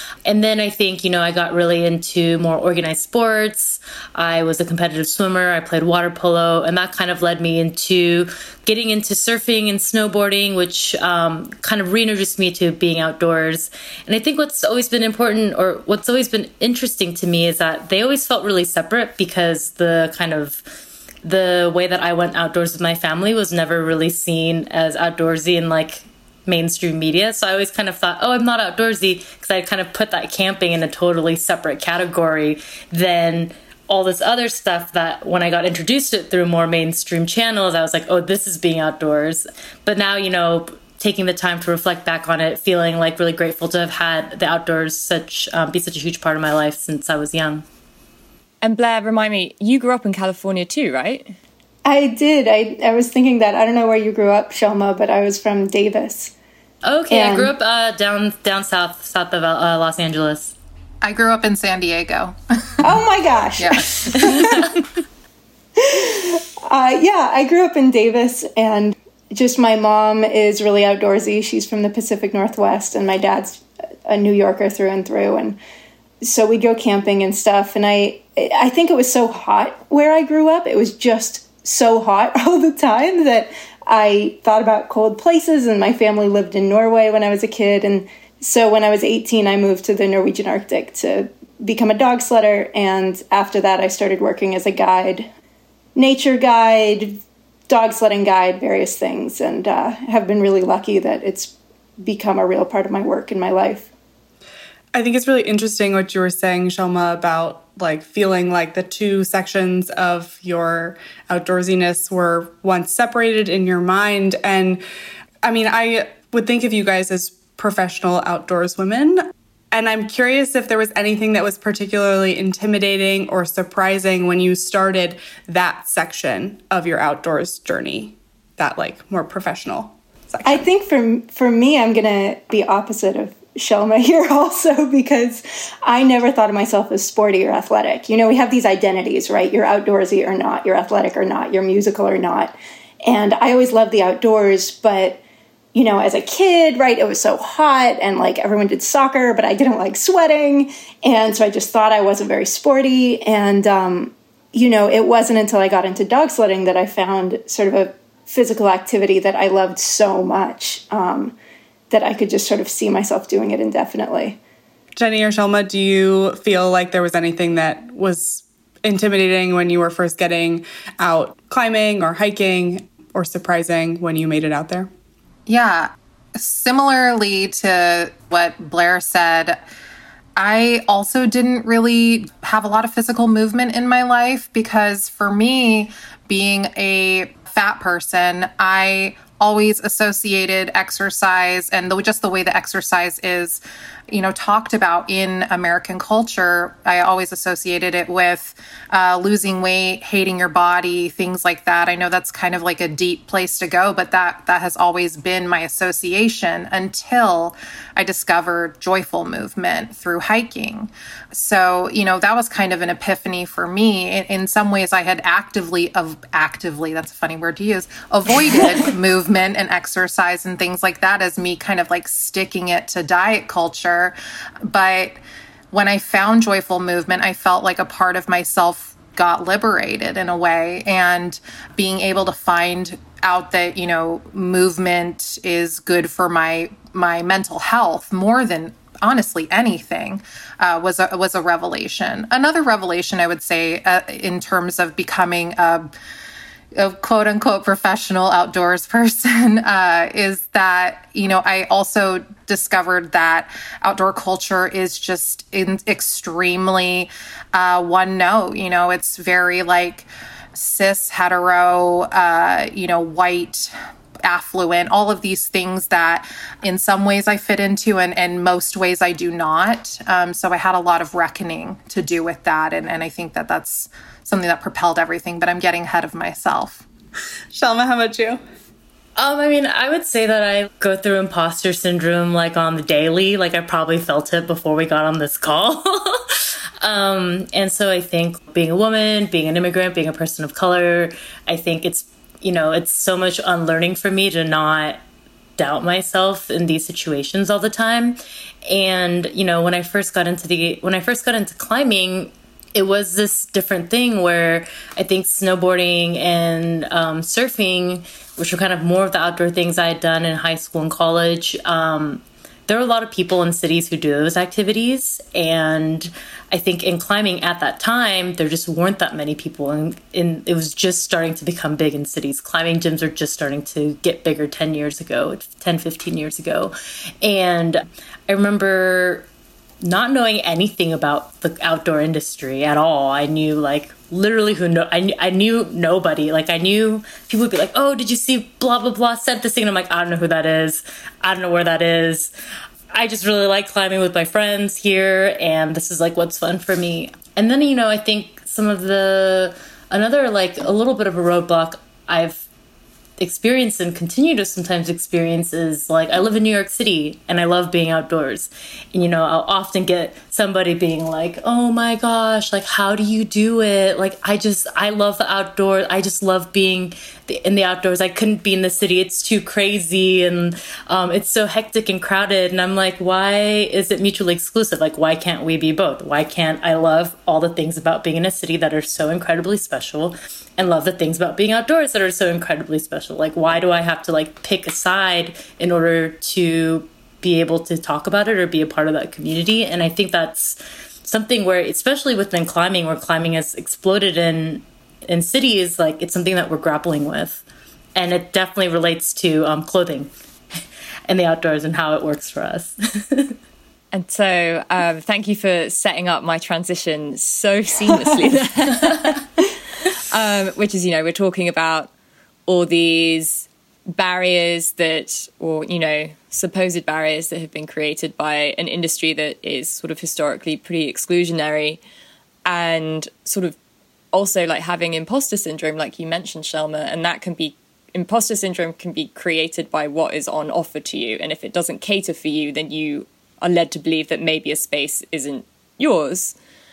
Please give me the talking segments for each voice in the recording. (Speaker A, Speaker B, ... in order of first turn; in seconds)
Speaker A: 0.2-20.6, 21.2-47.6, 56.8-60.6, 279.2-295.0, 295.6-329.3, 329.8-342.3, 342.9-352.5, 353.2-397.4, 398.0-400.1, 401.1-403.4
Speaker B: 48.6-51.3, 403.9-409.2, 410.1-411.9, 412.5-421.8, 422.5-423.6, 424.1-436.4
Speaker C: 51.9-56.3, 57.1-57.5, 62.8-64.7, 65.8-75.6, 76.2-95.3, 96.0-103.9, 130.4-145.2, 145.7-161.3, 161.9-164.4
Speaker D: 61.0-62.4, 63.6-63.9, 175.5-179.6, 180.4-225.2, 225.7-245.9, 246.8-276.9
Speaker E: 104.9-114.8, 115.4-130.7, 164.9-174.9, 277.5-278.4